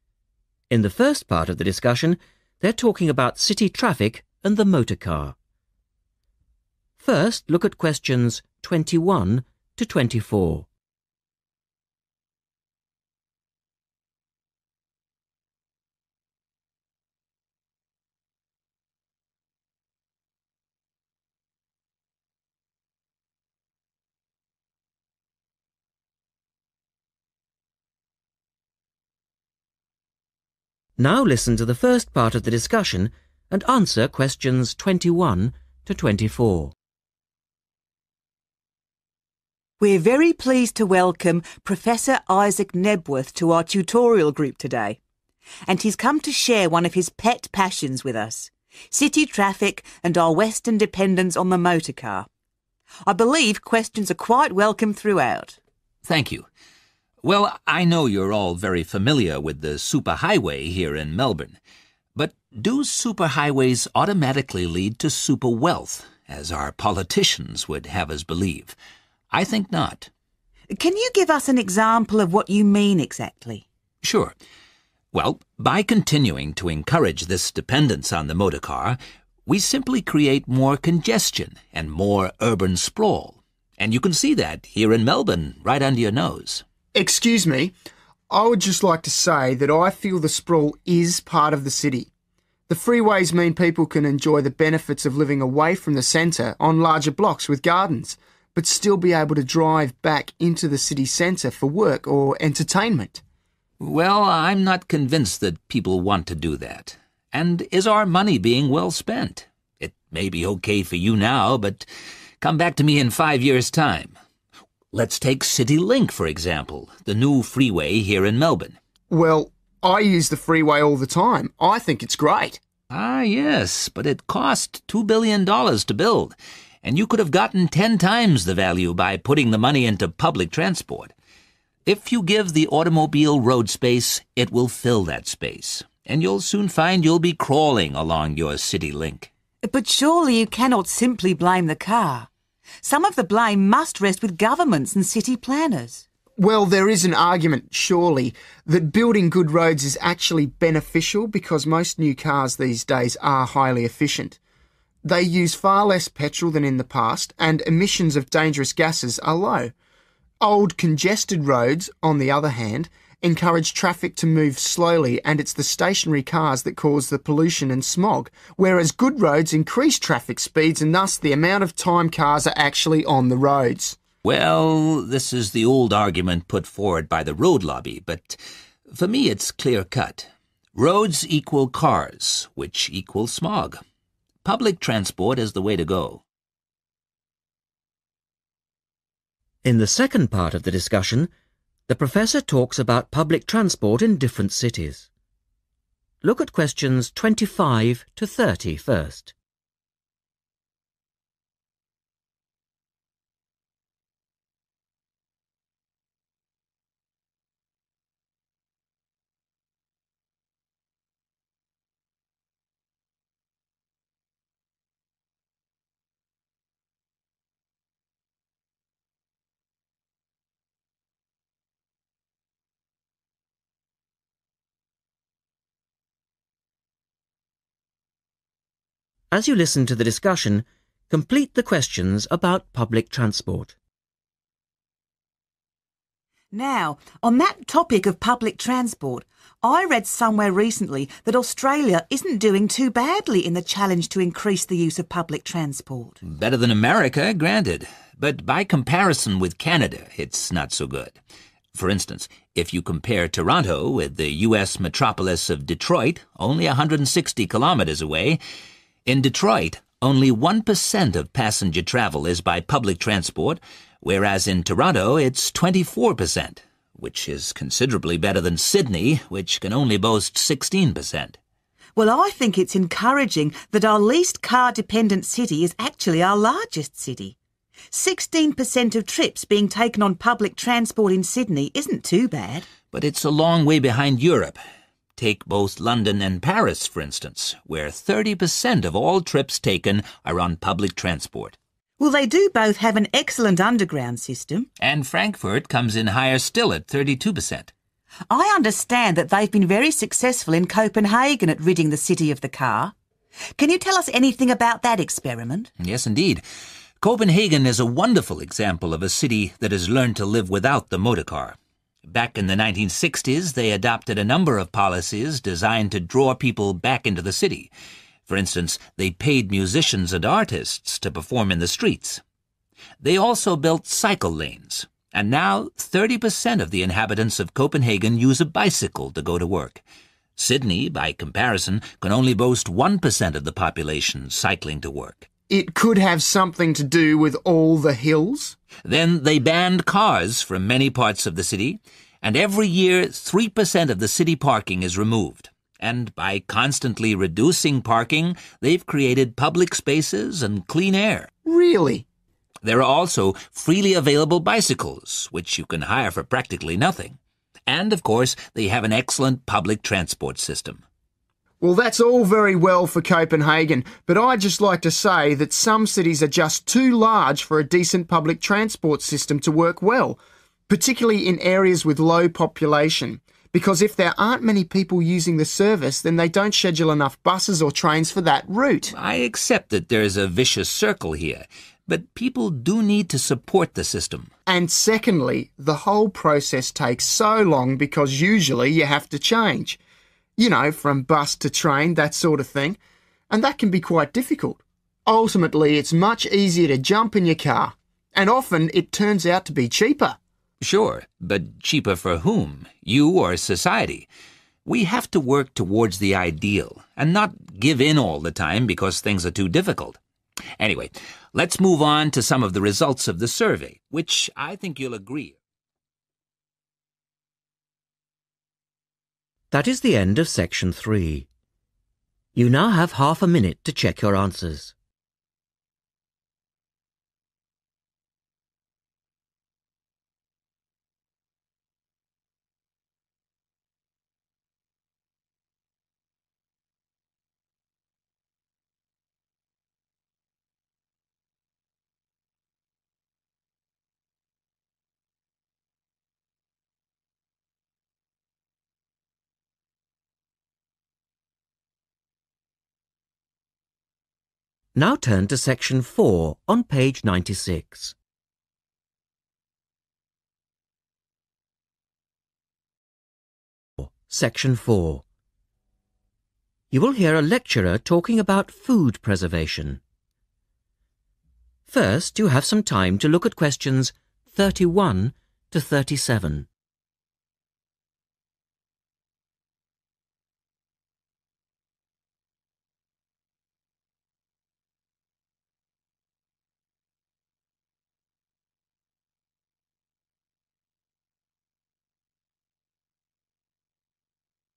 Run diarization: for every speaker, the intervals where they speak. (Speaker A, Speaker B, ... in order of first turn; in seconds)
Speaker A: 0.7-5.3, 7.0-10.7, 31.0-36.7, 189.6-191.3, 191.9-195.1, 196.2-199.3, 229.3-233.7, 419.5-421.3, 422.3-424.7, 454.7-457.9, 463.8-465.0, 466.7-469.8, 471.7-476.5
Speaker B: 39.8-45.0, 45.6-52.3, 53.0-55.6, 70.7-73.6, 139.6-142.3, 142.8-146.0, 236.5-246.2, 271.9-277.4, 277.9-282.7, 292.0-294.7, 298.3-302.9, 303.5-305.7
Speaker C: 56.0-56.5, 57.2-61.6, 62.1-68.8, 69.3-70.1, 74.0-74.3, 75.1-86.6, 103.8-111.8, 112.4-114.2, 114.9-118.8, 122.9-131.1, 131.8-139.3, 174.2-183.8, 184.4-186.2, 246.2-251.2, 251.7-258.4, 259.1-271.4, 282.9-284.6, 285.1-291.6, 294.8-297.7, 305.8-306.4, 307.0-311.6, 312.1-317.7, 318.3-322.2, 323.0-329.8, 330.4-335.3, 338.8-351.3, 352.6-360.8, 378.9-384.3, 400.6-404.1, 404.6-410.0, 410.6-415.4
Speaker D: 86.9-87.7, 88.3-92.1, 92.7-103.2, 119.1-122.6, 146.4-154.4, 155.0-159.7, 160.4-174.0, 335.5-338.6, 351.4-352.0, 361.6-370.2, 370.7-378.9, 384.5-389.8, 390.4-392.8, 393.3-400.2